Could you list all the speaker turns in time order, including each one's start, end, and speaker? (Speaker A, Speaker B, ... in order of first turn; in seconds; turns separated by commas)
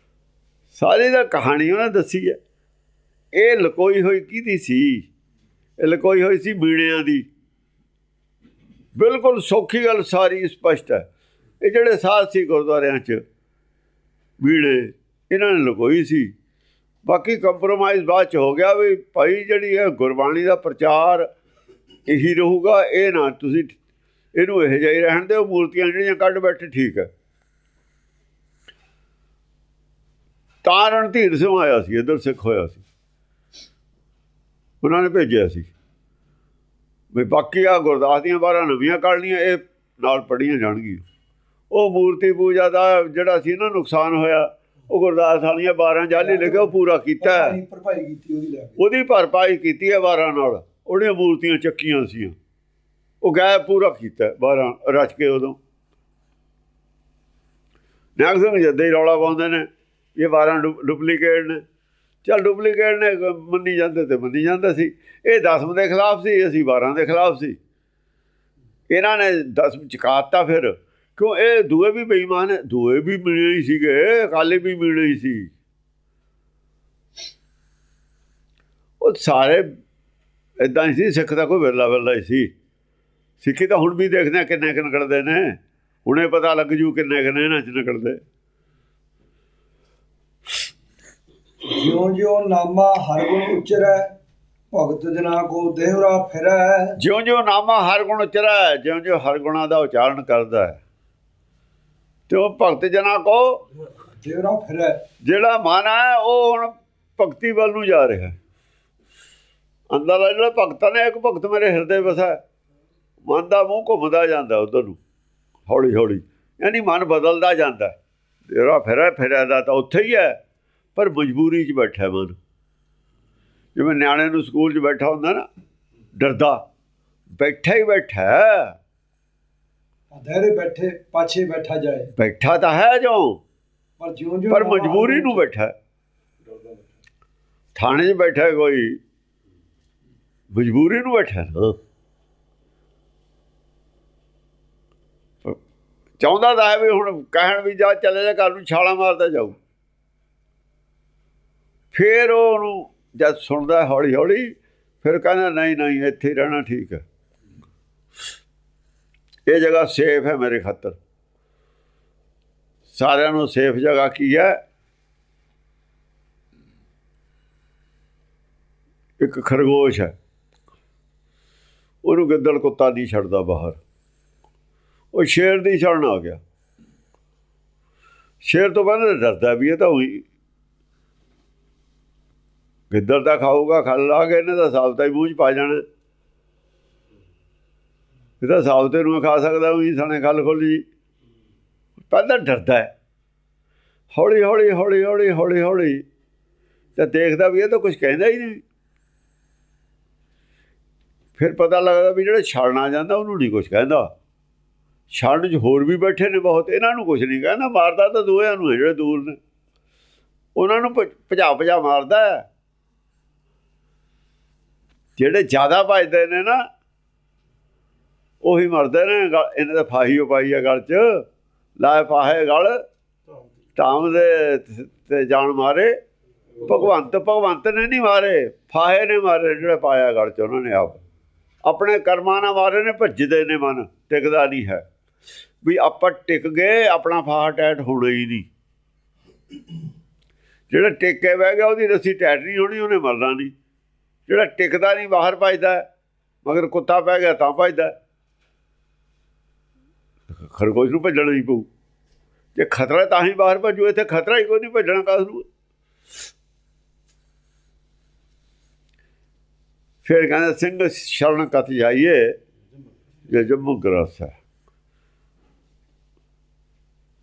Speaker A: 0.7-2.4, Speaker A: 3.3-5.0, Speaker A: 5.8-7.2, Speaker A: 8.9-11.1, Speaker A: 11.6-13.2, Speaker A: 14.4-16.3, Speaker A: 17.0-21.3, Speaker A: 22.1-23.8, Speaker A: 24.3-27.1, Speaker A: 30.6-32.8, Speaker A: 34.8-35.7, Speaker A: 37.1-41.0, Speaker A: 41.7-47.6, Speaker B: 46.2-48.8, Speaker A: 48.8-52.3, Speaker A: 53.2-55.6, Speaker A: 58.2-61.6, Speaker A: 62.2-67.6, Speaker A: 68.9-75.5, Speaker A: 79.0-79.6, Speaker A: 80.6-82.5, Speaker A: 83.4-88.2, Speaker B: 91.6-94.1, Speaker B: 94.7-97.0, Speaker A: 97.0-100.8, Speaker A: 102.3-103.6, Speaker B: 104.2-105.0, Speaker A: 105.2-108.3, Speaker A: 109.9-112.4, Speaker A: 113.2-115.0, Speaker A: 115.7-118.0, Speaker A: 118.5-120.3, Speaker A: 121.0-122.3, Speaker A: 123.7-125.4, Speaker A: 126.2-126.6, Speaker A: 127.4-128.8, Speaker B: 130.1-132.1, Speaker A: 132.2-133.4, Speaker B: 134.0-135.4, Speaker A: 134.5-135.7, Speaker A: 137.7-139.0, Speaker A: 140.5-141.7, Speaker A: 146.2-149.6, Speaker A: 151.9-154.5, Speaker A: 155.0-157.0, Speaker A: 159.5-161.0, Speaker A: 162.9-164.6, Speaker A: 169.2-170.1, Speaker A: 172.0-173.8, Speaker A: 175.1-176.4, Speaker A: 178.4-180.2, Speaker A: 182.9-185.8, Speaker A: 188.4-190.8, Speaker A: 192.1-192.9, Speaker A: 194.1-196.0, Speaker A: 197.0-198.6, Speaker A: 201.4-204.1, Speaker A: 205.1-209.4, Speaker A: 210.6-212.4, Speaker A: 215.2-216.6, Speaker A: 218.4-221.2, Speaker A: 221.8-222.8, Speaker A: 223.8-225.9, Speaker A: 226.6-231.0, Speaker A: 231.6-234.8, Speaker A: 235.6-238.5, Speaker A: 240.7-243.5, Speaker A: 244.3-245.9, Speaker A: 246.4-247.9, Speaker A: 250.3-251.7, Speaker A: 252.5-255.4, Speaker A: 260.0-262.4, Speaker A: 263.3-264.3